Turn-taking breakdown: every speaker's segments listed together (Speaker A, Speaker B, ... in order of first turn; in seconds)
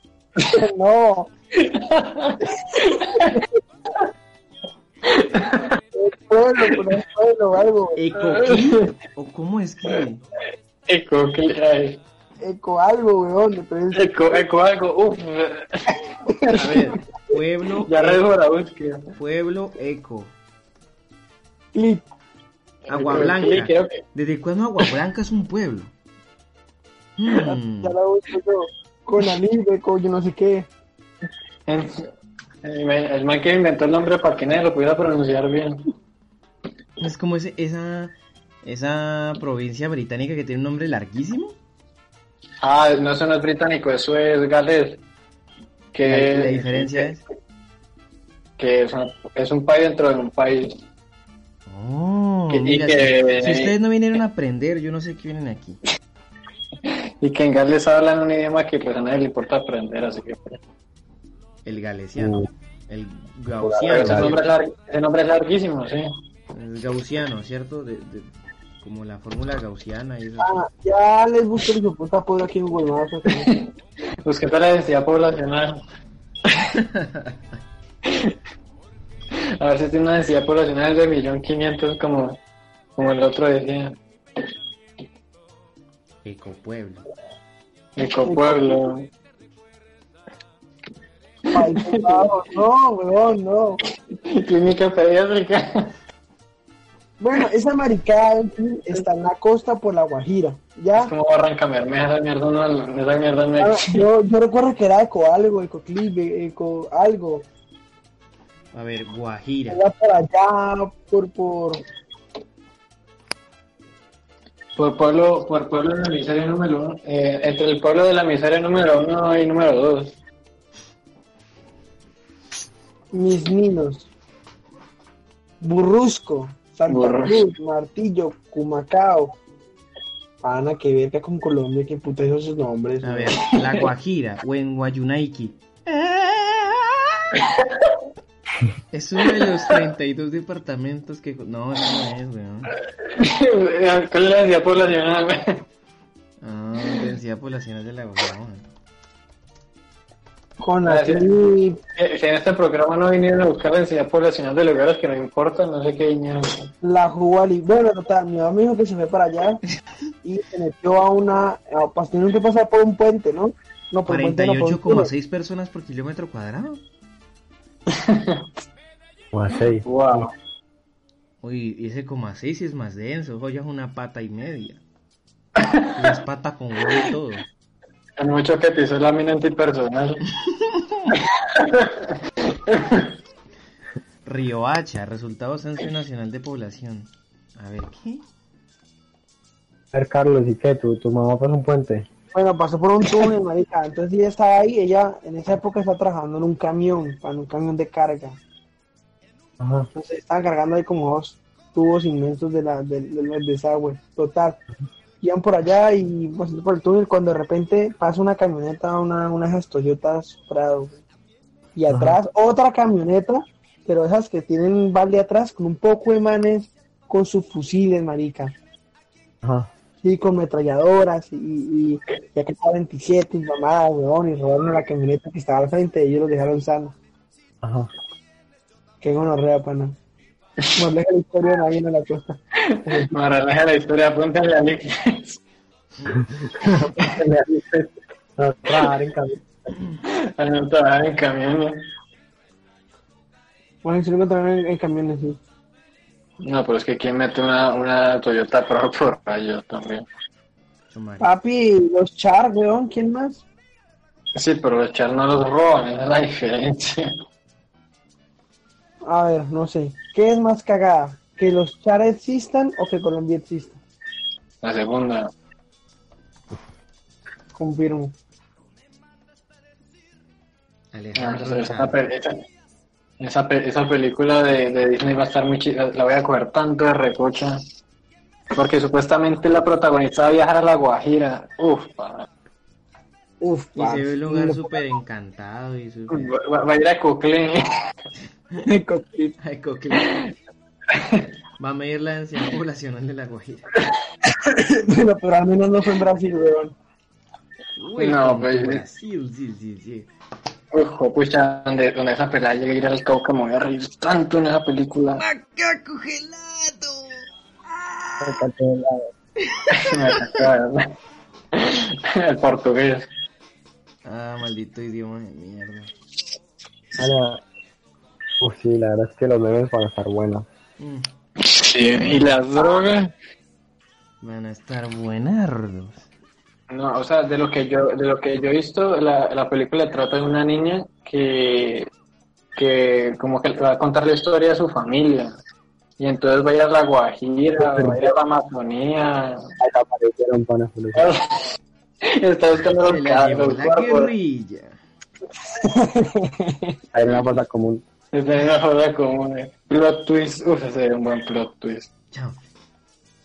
Speaker A: 0.5-1.3, 2.7-3.5, 5.9-8.0, 12.4-14.4, 16.3-16.9, 21.7-22.1, 27.5-30.7, 70.4-73.5, 88.2-88.8, 91.5-93.8, 97.2-101.1, 103.6-107.5, 109.7-111.8, 123.1-124.1, 125.6-129.3, 130.4-133.4, 150.6-151.8, 156.8-159.6, 160.2-165.1, 192.3-198.4, 199.9-204.6, 205.2-211.0, 211.8-218.6, 220.0-226.9, 229.0-229.9, 230.8-233.1, 243.8-245.4, 251.2-253.4, 259.0-263.8, 267.5-268.1, 283.4-284.8, 288.6-289.4, 294.2-296.8, 345.6-346.8
Speaker B: 1.6-3.4, 5.0-5.8, 8.2-8.9, 10.9-12.0, 13.9-15.9, 17.8-19.1, 22.9-24.0, 31.7-32.1, 32.6-35.9, 42.6-45.0, 45.9-47.2, 48.6-50.8, 52.5-53.8, 56.9-60.6, 63.9-66.1, 73.3-73.7, 74.2-75.8, 78.1-78.3, 79.6-82.4, 83.0-84.0, 88.0-89.1, 91.5-92.3, 94.2-95.9, 101.0-104.1, 114.8-120.2, 126.9-127.4, 137.5-137.9, 143.0-145.6, 150.8-151.3, 151.9-156.7, 167.9-168.4, 169.8-170.3, 175.6-176.0, 178.2-180.2, 181.5-182.1, 182.7-183.1, 230.6-230.8, 232.6-235.4, 240.1-241.8, 246.4-250.1, 254.3-257.1, 264.6-265.3, 271.1-272.4, 273.2-277.6, 278.5-282.3, 286.1-287.6, 290.0-290.3, 290.9-291.3, 297.9-298.8, 300.7-305.2, 309.7-310.9, 311.5-313.1, 321.4-323.1, 326.7-331.9, 332.6-335.4, 336.0-339.4, 340.9-341.5, 342.0-344.1, 348.1-351.9
Speaker C: 8.0-10.2, 16.6-18.2, 19.2-20.3, 22.9-25.9, 27.2-27.9, 37.0-41.6, 46.0-47.2, 51.7-55.8, 61.6-64.4, 66.5-70.6, 76.8-77.3, 86.2-87.1, 108.7-109.8, 133.0-137.4, 138.9-142.7, 146.4-148.6, 164.1-166.8, 171.4-174.8, 175.9-177.4, 180.6-181.2, 184.2-188.2, 250.9-251.3, 270.9-272.0, 283.8-286.3, 289.4-290.2, 291.6-293.7, 297.8-300.1, 305.2-308.4, 309.4-310.4, 314.0-315.9, 320.8-321.1, 322.0-322.4, 324.2-326.1, 342.8-344.8, 352.1-352.4
Speaker D: 62.2-62.5, 63.6-64.3, 169.3-170.3, 189.9-192.1, 199.6-199.9, 211.9-212.2, 219.4-219.7, 227.6-227.9, 236.4-239.4, 308.2-309.1, 317.0-317.4, 318.4-320.5, 337.6-338.1, 339.6-341.1, 346.9-347.8